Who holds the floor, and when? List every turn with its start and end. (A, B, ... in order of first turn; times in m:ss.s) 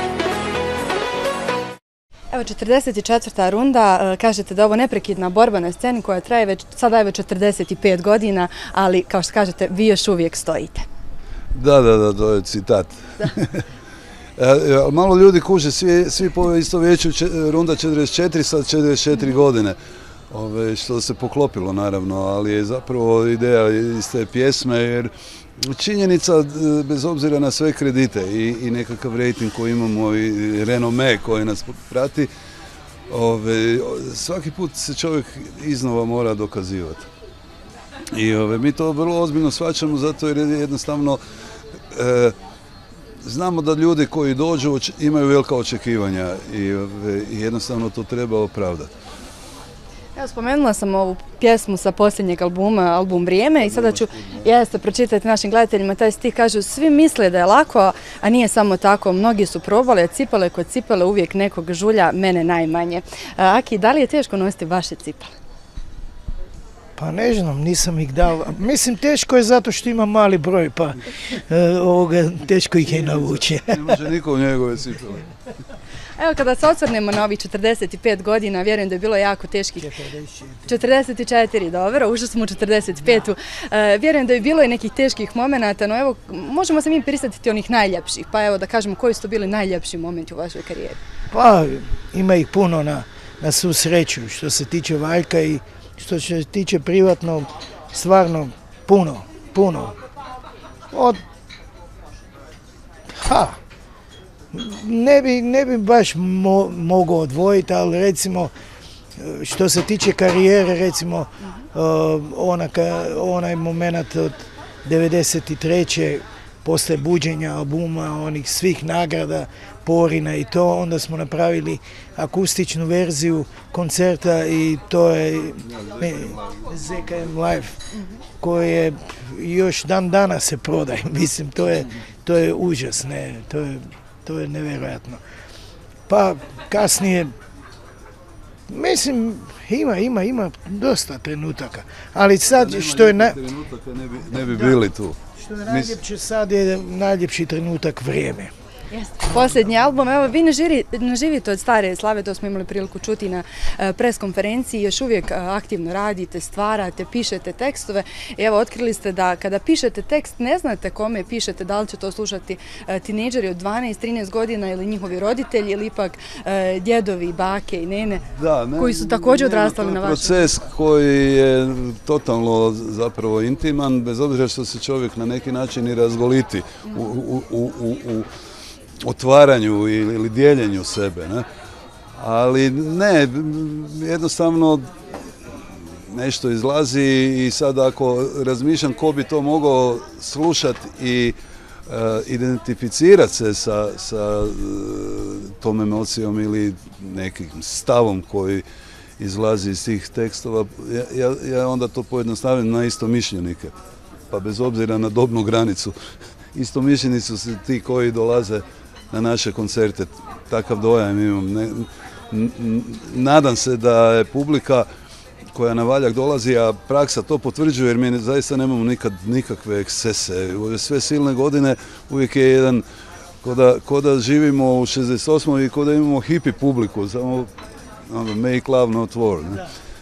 0:02.3-0:10.8 A
0:11.5-0:13.6 B
0:14.4-0:19.8 B
0:20.3-0:32.3 B
0:33.1-0:37.1 B
0:38.1-0:41.2 B
0:41.9-0:42.3 B
0:43.2-0:48.9 B
0:50.1-1:05.3 A
0:53.6-0:54.4 B
1:07.0-1:14.0 C
1:12.8-1:15.3 B
1:16.2-1:19.9 A
1:19.8-1:20.8 C
1:20.6-1:31.0 A
1:31.3-1:39.9 C
1:40.9-1:41.2 C
1:43.1-1:43.6 C
1:44.5-1:48.5 C
1:49.2-2:07.8 C
2:05.6-2:07.1 B
2:08.4-2:15.2 C
2:16.1-2:17.3 C
2:18.7-2:23.4 C
2:22.4-2:26.0 B
2:25.4-2:28.5 C
2:28.9-2:50.5 A
2:48.4-2:58.3 B
2:59.0-3:01.4 B
3:02.2-3:04.9 B
3:06.1-3:18.6 B
3:19.2-3:23.8 B
3:24.3-3:25.9 B
3:26.5-3:34.9 B
3:35.5-3:42.8 B
3:43.4-3:47.5 B
3:48.1-3:49.7 B